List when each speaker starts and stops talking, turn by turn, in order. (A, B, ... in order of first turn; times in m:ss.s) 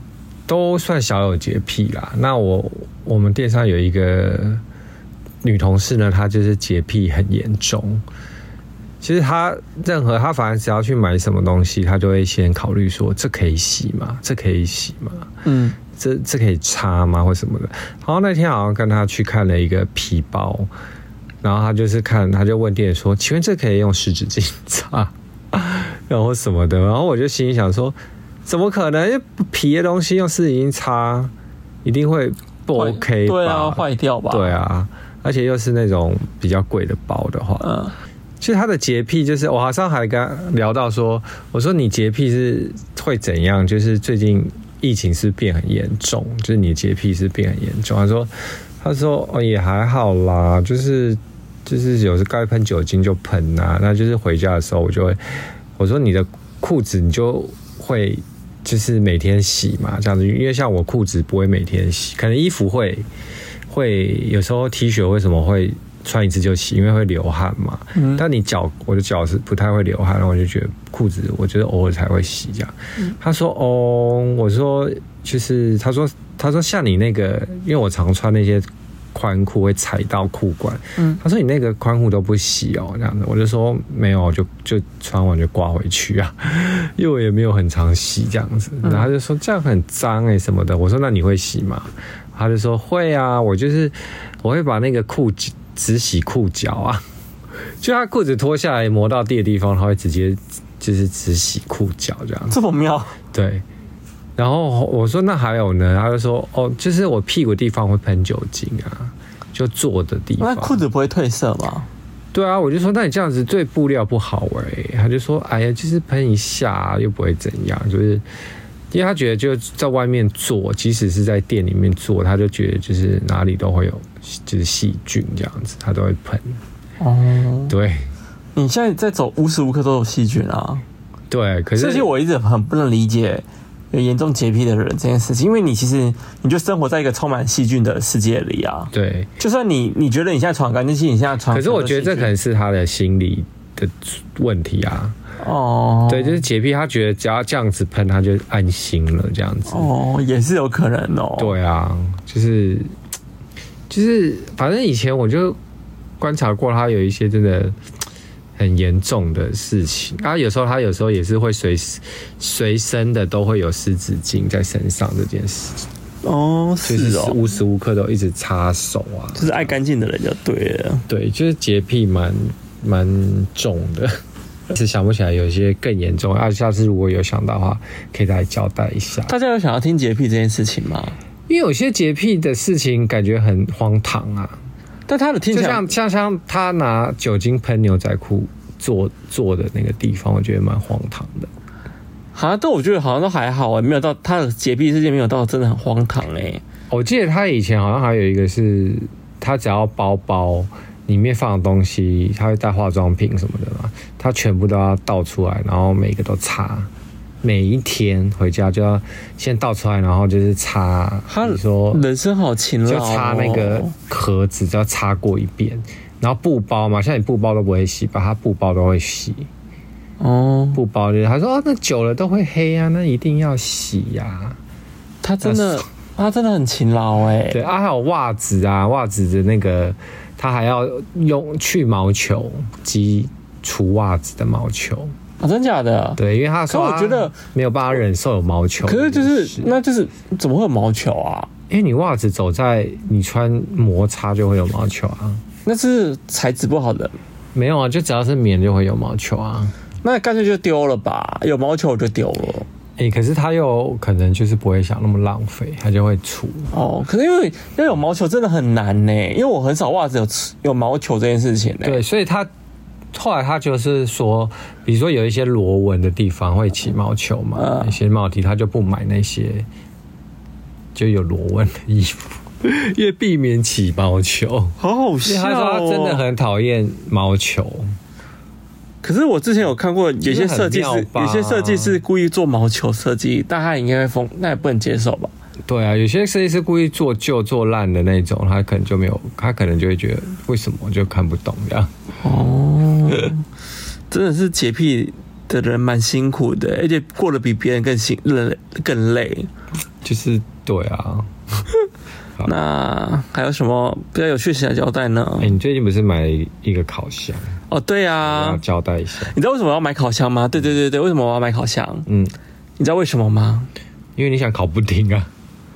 0:00.5-0:04.6 A
0:05.4-0:08.0 A
0:09.0-0:15.3 A
0:15.4-0:15.8 B
0:15.9-0:20.7 A
0:21.4-0:31.3 A
0:31.8-0:37.7 A
0:32.7-0:34.5 B
0:37.6-0:37.9 B
0:38.4-0:55.2 A
0:55.8-1:03.0 A
1:03.7-1:37.0 A
1:07.9-1:08.2 B
1:37.8-1:42.6 A
1:42.5-1:43.2 B
1:43.3-1:43.6 A
1:44.4-1:50.8 A
1:50.4-1:51.9 B
1:52.3-1:58.2 A
1:58.9-2:06.6 A
2:07.0-2:07.7 B
2:07.7-2:08.1 A
2:08.5-2:10.8 B
2:11.3-2:12.1 A
2:11.8-2:22.3 B
2:18.9-2:19.3 A
2:21.5-2:25.2 A
2:25.4-2:26.4 B
2:26.1-2:29.9 A
2:29.7-2:31.5 B
2:31.4-2:32.9 A
2:33.9-2:35.6 A
2:36.2-2:37.8 A
2:38.6-2:45.9 A
2:46.2-2:47.4 B
2:46.8-2:49.7 A
2:49.4-2:51.0 B
2:51.1-2:54.1 A
2:54.7-2:59.3 A
2:59.2-3:01.2 B
3:01.5-3:04.6 A
3:05.1-3:05.9 B
3:05.5-3:11.5 A
3:12.3-3:16.6 B
3:16.9-3:26.9 A
3:27.4-3:32.0 A
3:31.3-3:33.9 B
3:32.8-3:39.5 A
3:40.2-3:40.8 B
3:40.7-3:44.6 A
3:45.2-3:47.6 B
3:45.4-3:45.8 A
3:47.5-3:55.1 A
3:55.4-3:57.3 B
3:56.2-3:59.7 A
3:58.8-4:01.5 B
4:01.7-4:05.4 A
4:05.6-4:07.2 B
4:07.5-4:09.7 A
4:10.0-4:12.7 B
4:13.0-4:16.7 A
4:16.7-4:22.0 B
4:21.8-4:22.5 A
4:23.1-4:29.7 A
4:27.5-4:28.0 B
4:30.9-4:37.9 A
4:34.8-4:36.2 B
4:39.0-4:45.3 B
4:40.2-4:42.0 A
4:45.7-4:51.9 A
4:52.2-4:53.4 B
4:54.1-4:59.5 B
5:00.0-5:01.3 A
5:02.4-5:05.5 B
5:05.4-5:07.6 A
5:07.7-5:08.6 B
5:08.2-5:09.3 A
5:09.3-5:12.1 B
5:12.1-5:12.3 A
5:12.8-5:13.7 B
5:14.2-5:15.3 A